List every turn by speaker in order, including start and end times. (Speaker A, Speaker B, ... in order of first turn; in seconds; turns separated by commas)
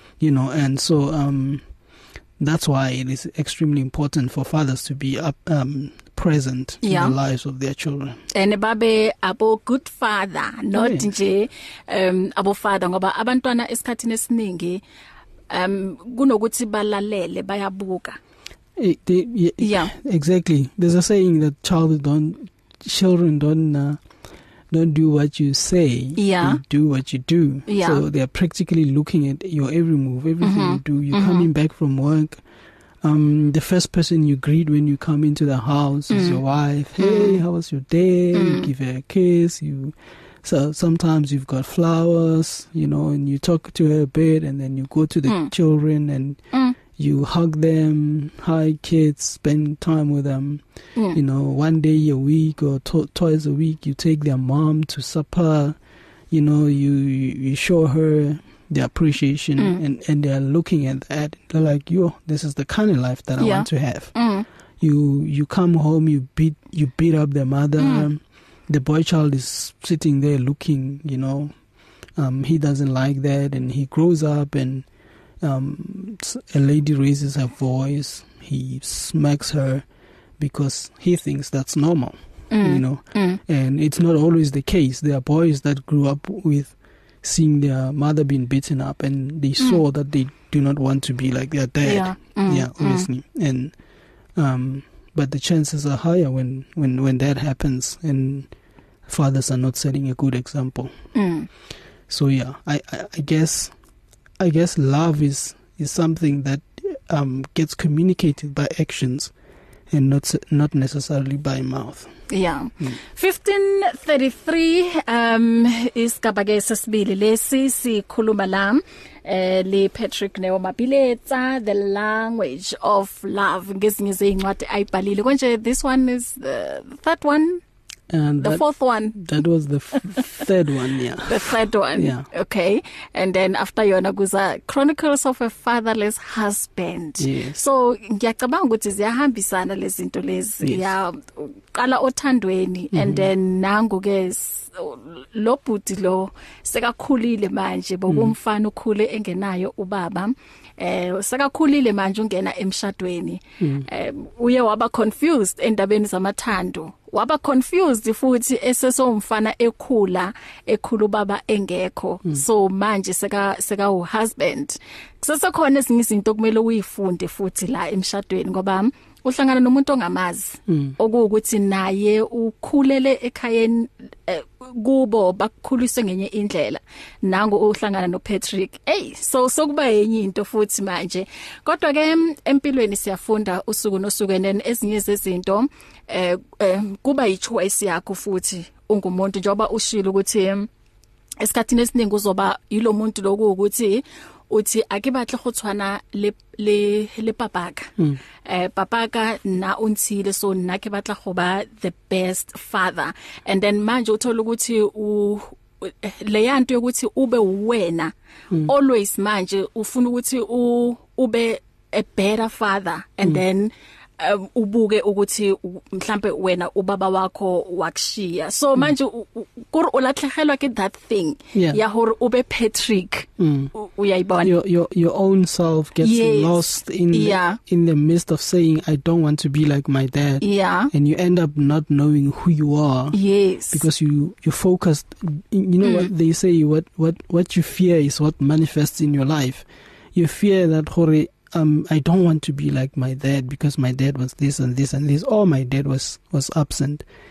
Speaker A: 0.2-1.6, Speaker A: 2.4-8.2, Speaker B: 6.8-7.2, Speaker B: 8.3-14.8, Speaker A: 10.7-11.1, Speaker B: 15.5-18.2, Speaker A: 18.8-24.0, Speaker B: 19.6-19.9, Speaker A: 24.7-32.4, Speaker B: 26.2-26.6, Speaker B: 27.7-28.0, Speaker B: 30.4-31.5, Speaker A: 33.0-55.8, Speaker B: 36.1-36.4, Speaker B: 37.0-37.4, Speaker B: 38.3-38.7, Speaker B: 45.3-45.5, Speaker A: 56.3-64.2, Speaker B: 63.4-64.5, Speaker A: 64.8-71.5, Speaker B: 67.8-68.1, Speaker A: 72.2-74.9, Speaker A: 75.4-79.9, Speaker A: 80.4-93.8, Speaker B: 82.5-83.4, Speaker B: 91.8-93.1, Speaker A: 94.3-98.5, Speaker A: 99.1-100.9, Speaker B: 101.2-101.5, Speaker A: 102.1-103.8, Speaker A: 104.4-109.3, Speaker A: 109.9-112.1, Speaker B: 112.3-127.6, Speaker A: 128.1-132.3, Speaker B: 128.4-129.2, Speaker B: 129.9-130.2, Speaker B: 131.2-190.7, Speaker A: 137.2-137.6, Speaker A: 140.6-140.9, Speaker A: 142.9-143.3, Speaker A: 148.1-148.3, Speaker A: 153.6-153.9, Speaker A: 170.7-170.9, Speaker B: 191.4-197.9, Speaker B: 198.4-224.5, Speaker A: 221.5-221.8, Speaker A: 223.4-223.7, Speaker A: 224.4-233.2, Speaker B: 226.0-227.6, Speaker B: 230.4-230.9, Speaker B: 233.1-233.8, Speaker A: 233.7-247.1, Speaker B: 235.8-236.1